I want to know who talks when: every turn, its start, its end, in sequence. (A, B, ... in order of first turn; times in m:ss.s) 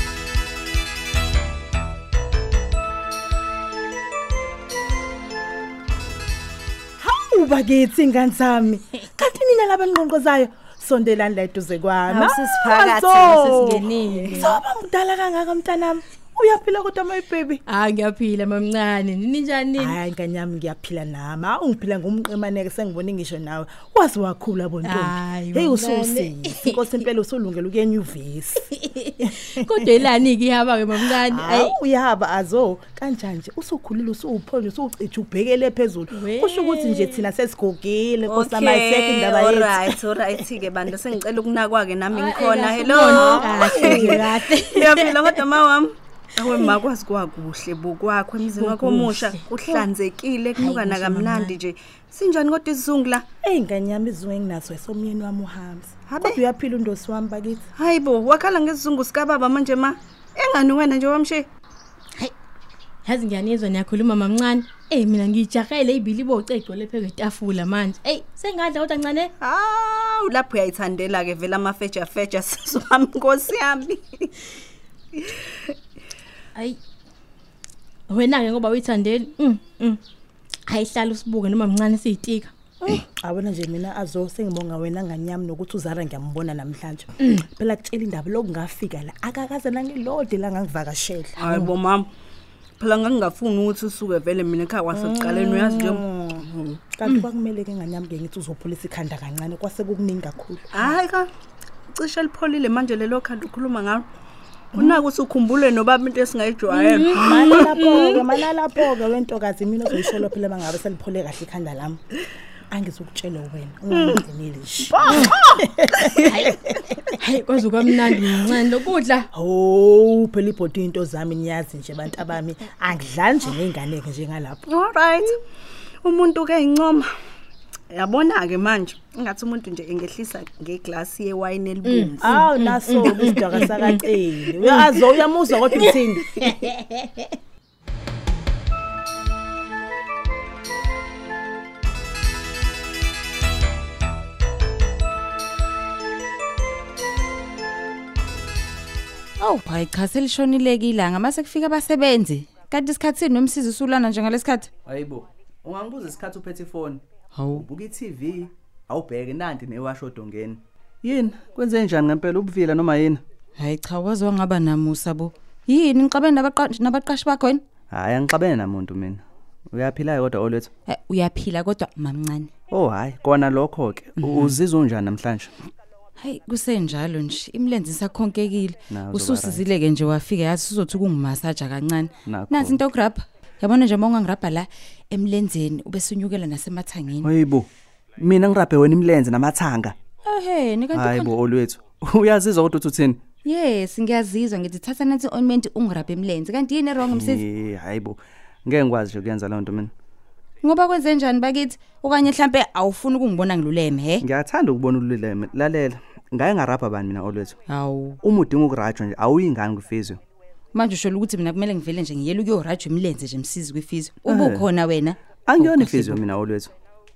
0:07.0-0:17.6 A
0:12.1-0:14.4 B
0:13.2-0:14.6 C
0:17.7-0:20.0 C
0:19.8-0:28.6 A
0:24.8-0:26.9 C
0:28.7-0:31.7 C
0:29.2-0:30.0 A
0:31.1-0:41.0 A
0:36.1-0:37.3 C
0:38.3-0:53.2 B
0:42.1-0:45.5 C
0:43.7-0:44.2 A
0:46.5-0:46.8 C
0:48.4-0:49.5 C
0:50.6-0:51.6 C
0:53.4-0:57.6 A
0:56.1-0:56.4 B
0:57.8-1:01.5 B
1:03.0-1:09.3 C
1:09.4-1:14.3 B
1:15.1-1:15.7 B
1:18.1-1:20.0 C
1:20.7-1:22.5 C
1:22.8-1:31.5 A
1:31.4-1:32.1 B
1:32.8-1:36.0 B
1:34.9-1:41.0 A
1:40.7-1:41.3 B
1:41.9-1:44.1 B
1:44.7-1:45.1 A
1:44.7-1:48.2 B
1:46.7-1:47.2 C
1:47.2-1:52.0 A
1:52.7-1:56.8 A
1:53.9-1:54.2 B
1:54.8-1:56.5 B
1:55.0-1:55.3 C
1:56.3-1:56.6 C
1:57.2-1:59.3 C
1:59.3-2:04.6 A
2:04.7-2:05.4 B
2:06.0-2:07.1 B
2:07.9-2:12.3 B
2:11.8-2:14.0 C
2:12.2-2:16.5 A
2:16.4-2:17.3 C
2:29.4-2:34.7 D
2:34.8-2:43.2 E
2:37.3-2:37.6 D
2:43.6-2:47.6 D
2:47.9-2:50.7 E
2:50.9-2:52.5 D
2:52.7-2:55.5 E
2:56.2-3:07.3 D
2:58.9-2:59.6 E
3:02.2-3:02.8 E
3:07.2-3:10.0 E
3:10.2-3:11.3 D
3:10.9-3:13.2 E
3:13.4-3:17.4 D
3:17.0-3:19.9 E
3:20.6-3:24.2 D
3:24.2-3:27.6 E
3:27.7-3:28.2 D
3:28.2-3:30.2 E
3:30.7-3:36.2 D
3:34.2-3:34.7 E
3:35.4-3:36.7 E